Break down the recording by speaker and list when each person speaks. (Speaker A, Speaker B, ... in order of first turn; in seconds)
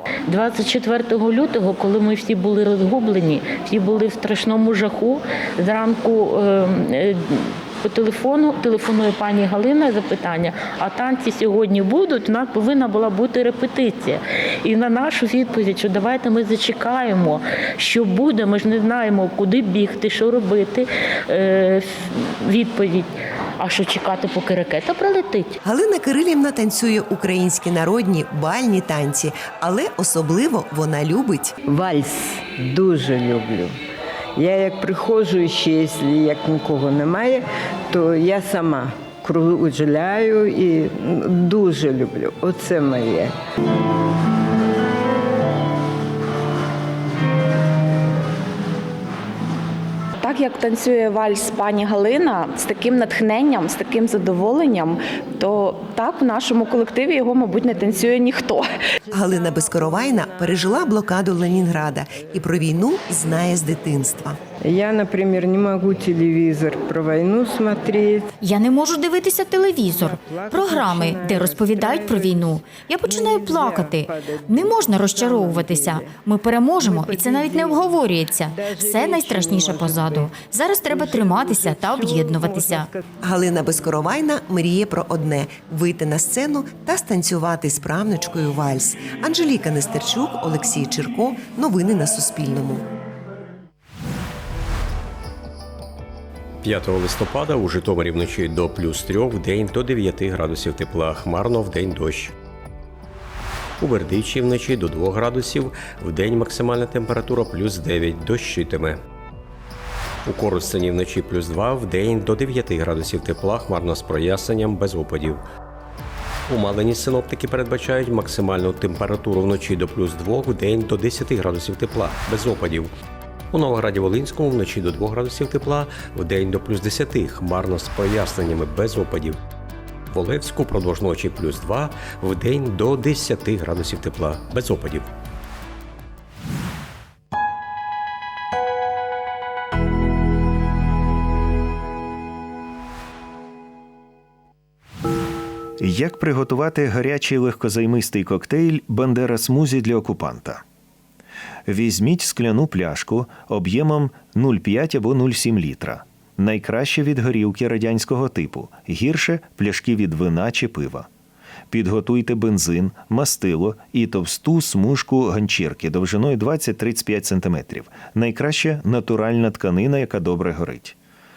Speaker A: 0.3-25.5
Speaker B: 25.6-31.5, 59.1-64.4, 83.2-92.8
Speaker C: 31.6-33.7, 34.4-43.3, 64.6-68.3, 69.9-72.5, 73.0-76.1, 76.8-77.9, 78.5-80.3, 80.9-83.0
Speaker D: 50.2-58.7
Speaker E: 68.4-82.9
Speaker F: 96.6-102.3, 103.8-109.0, 110.2-115.4, 116.5-122.9, 123.5-129.4, 130.1-135.1
Speaker G: 145.8-150.6, 151.7-161.1, 161.7-170.9